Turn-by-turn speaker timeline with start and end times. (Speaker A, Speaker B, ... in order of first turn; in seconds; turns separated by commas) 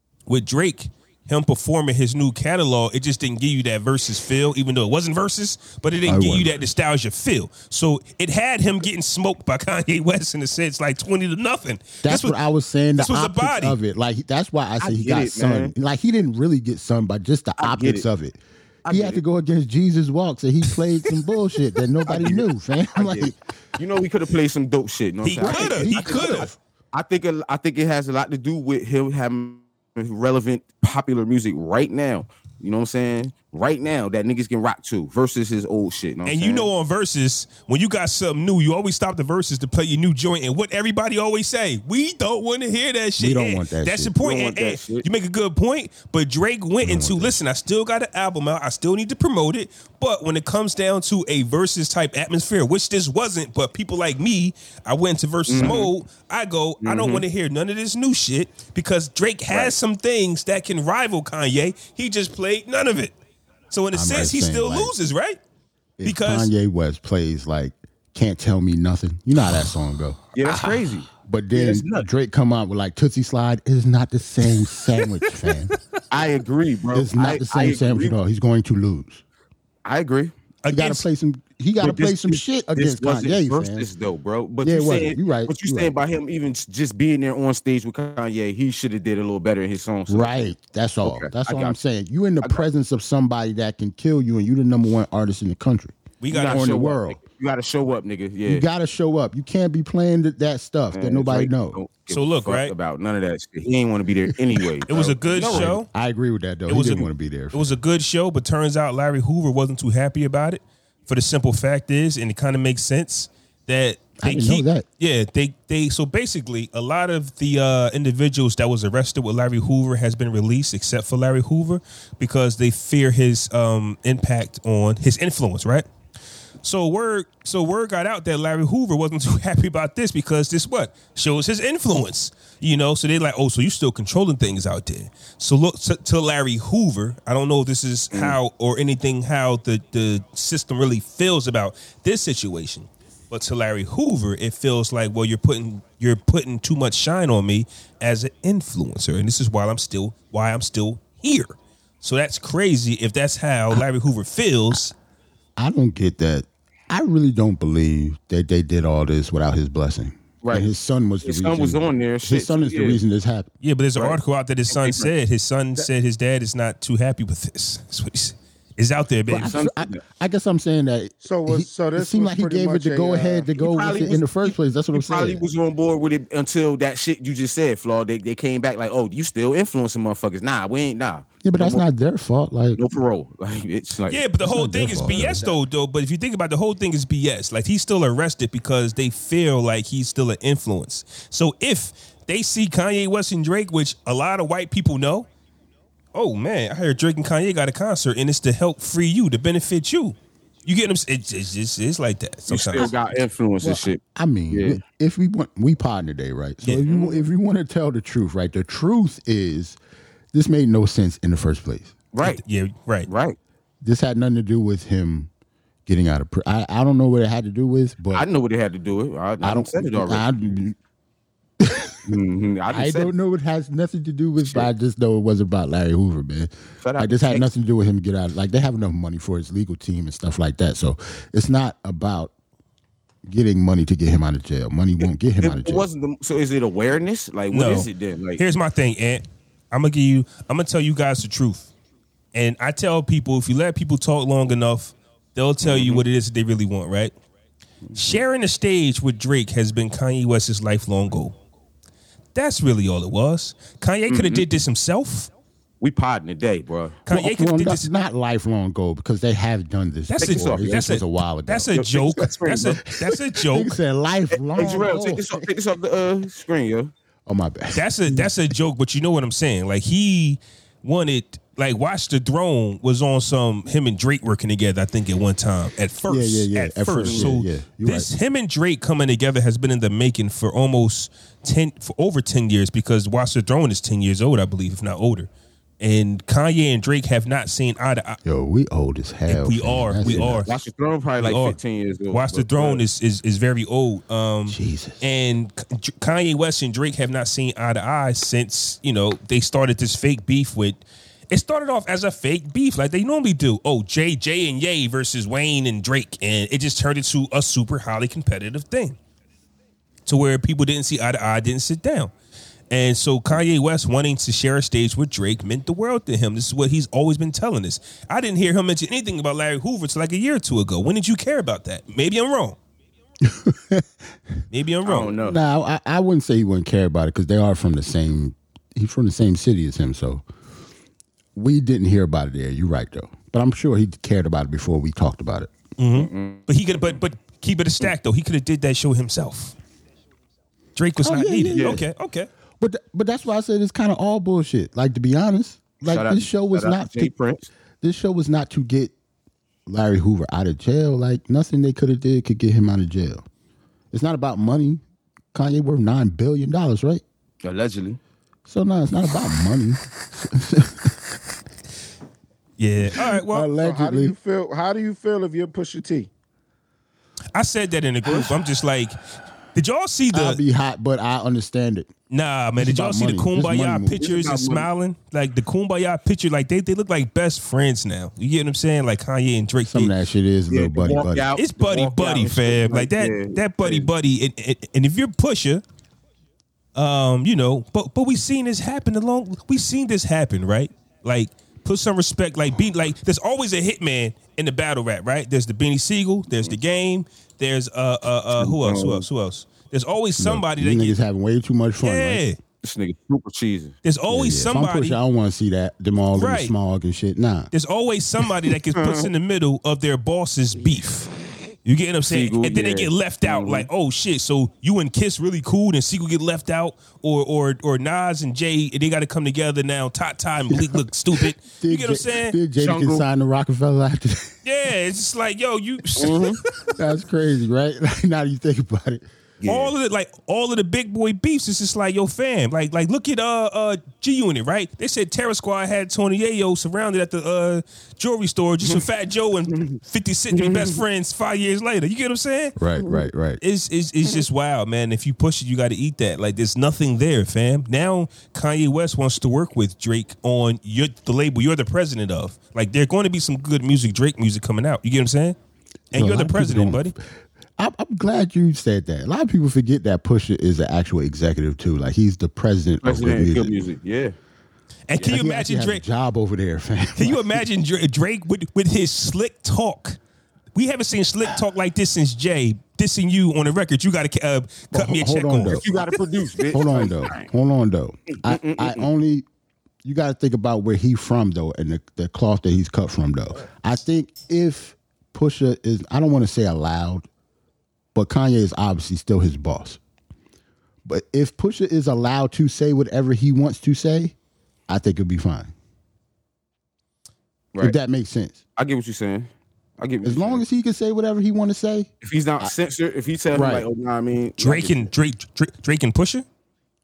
Speaker A: 0.3-12.3, Speaker B: 6.0-6.6, Speaker B: 12.0-23.4, Speaker A: 12.9-13.8, Speaker C: 14.8-15.7, Speaker C: 17.6-18.0, Speaker C: 18.9-19.2, Speaker C: 22.1-36.7, Speaker A: 25.2-26.5, Speaker B: 25.4-26.6, Speaker A: 36.2-63.1, Speaker B: 43.2-44.1, Speaker C: 44.2-45.0, Speaker B: 46.8-47.4, Speaker C: 55.5-55.9, Speaker C: 56.8-57.2, Speaker C: 59.5-59.8, Speaker A: 63.7-65.4, Speaker B: 63.9-64.9, Speaker B: 66.0-75.7, Speaker A: 66.0-66.5, Speaker C: 70.3-72.0, Speaker A: 75.2-75.5, Speaker C: 76.1-78.1, Speaker B: 76.9-79.2, Speaker C: 79.8-80.3, Speaker A: 80.6-81.0, Speaker B: 80.7-83.9, Speaker C: 81.8-91.8, Speaker B: 84.6-85.9, Speaker B: 90.1-97.2, Speaker A: 96.2-96.9, Speaker C: 96.3-98.7, Speaker B: 98.4-101.8, Speaker C: 100.9-105.7, Speaker A: 102.1-102.7, Speaker A: 104.9-105.9, Speaker B: 105.3-107.8, Speaker A: 106.7-125.8, Speaker B: 114.2-114.8, Speaker A: 126.6-154.9, Speaker C: 138.1-138.4, Speaker B: 155.6-163.5, Speaker C: 160.4-160.7, Speaker C: 161.2-163.0, Speaker A: 163.6-169.6, Speaker C: 163.9-165.1, Speaker B: 169.3-175.4, Speaker C: 169.3-170.0, Speaker D: 171.2-173.5, Speaker C: 173.6-181.8, Speaker B: 181.4-182.8, Speaker C: 182.8-184.2, Speaker A: 184.1-195.3, Speaker B: 184.4-185.4, Speaker C: 184.9-185.6, Speaker A: 196.1-202.9, Speaker C: 202.5-204.8, Speaker B: 203.6-209.8, Speaker A: 206.6-206.9, Speaker C: 206.8-207.2, Speaker B: 210.3-211.9, Speaker C: 212.1-212.4, Speaker A: 212.2-213.1, Speaker C: 213.1-213.4, Speaker B: 213.8-215.3, Speaker B: 215.8-218.3, Speaker C: 218.1-220.2, Speaker B: 219.4-220.8, Speaker B: 221.6-222.1, Speaker C: 222.1-223.1, Speaker B: 222.7-232.3, Speaker C: 224.4-224.7, Speaker C: 226.8-227.4, Speaker B: 233.2-235.8, Speaker C: 235.4-238.4, Speaker A: 237.5-241.7, Speaker A: 242.3-247.1, Speaker C: 245.6-246.0, Speaker A: 247.9-251.3, Speaker A: 252.3-255.3, Speaker C: 254.1-254.4, Speaker C: 255.8-257.0, Speaker A: 257.1-257.9, Speaker B: 257.1-261.8, Speaker A: 260.1-263.8, Speaker C: 260.2-260.8, Speaker C: 261.7-262.8, Speaker B: 262.9-265.4, Speaker C: 264.5-266.9, Speaker B: 267.3-268.3, Speaker A: 267.7-285.3, Speaker B: 276.1-278.1, Speaker C: 277.0-277.3, Speaker A: 285.8-288.2, Speaker B: 288.2-290.5, Speaker A: 289.3-290.5, Speaker C: 290.0-292.8, Speaker A: 291.2-291.6, Speaker A: 292.1-309.0, Speaker B: 294.5-295.0, Speaker A: 310.1-312.1, Speaker A: 312.7-322.6, Speaker B: 323.2-323.9, Speaker A: 324.5-325.1, Speaker C: 324.8-325.4, Speaker B: 325.2-330.2, Speaker B: 331.4-335.5, Speaker A: 335.8-339.5, Speaker C: 335.9-336.9, Speaker A: 340.8-342.3, Speaker B: 341.0-341.9, Speaker C: 341.5-341.8, Speaker B: 342.6-347.1, Speaker C: 345.8-347.5, Speaker B: 347.8-348.9, Speaker B: 349.7-353.2, Speaker B: 353.9-354.8, Speaker B: 355.3-357.0, Speaker C: 357.4-358.0, Speaker B: 358.5-360.9, Speaker A: 362.6-363.5, Speaker B: 362.8-364.1, Speaker D: 363.6-366.1, Speaker A: 367.3-369.0, Speaker C: 368.0-368.3, Speaker A: 369.5-370.4, Speaker B: 370.1-371.9, Speaker A: 372.1-379.9, Speaker B: 372.6-374.1, Speaker C: 374.0-374.7, Speaker B: 379.6-381.3, Speaker C: 380.5-383.9, Speaker A: 381.4-385.6, Speaker A: 386.7-401.0, Speaker C: 398.3-399.1, Speaker B: 400.2-402.2, Speaker A: 401.8-402.4, Speaker C: 402.6-403.8, Speaker A: 403.8-405.0, Speaker B: 404.1-407.5, Speaker A: 406.1-406.5, Speaker A: 407.5-411.1, Speaker C: 408.8-409.1, Speaker A: 411.6-422.4, Speaker C: 412.1-413.7, Speaker B: 420.5-424.4, Speaker C: 422.6-423.0, Speaker A: 424.4-426.7, Speaker C: 426.0-426.4, Speaker B: 426.8-429.1, Speaker C: 429.4-429.7, Speaker A: 429.4-442.6, Speaker C: 440.3-440.8, Speaker B: 442.6-443.4, Speaker A: 443.4-455.4, Speaker A: 455.9-456.9, Speaker B: 455.9-456.9, Speaker B: 457.6-463.6, Speaker C: 462.8-464.1, Speaker A: 464.9-465.8, Speaker B: 465.0-467.4, Speaker A: 466.9-470.0, Speaker A: 470.5-475.6, Speaker B: 474.7-475.6, Speaker C: 475.5-477.3, Speaker B: 476.5-479.2, Speaker C: 478.2-478.8, Speaker B: 479.8-487.1, Speaker B: 487.9-489.8, Speaker B: 490.9-494.1, Speaker B: 494.7-495.5, Speaker B: 497.6-498.4, Speaker C: 498.6-500.4, Speaker B: 500.0-502.5, Speaker C: 502.0-504.9, Speaker B: 503.3-503.7, Speaker A: 504.4-506.2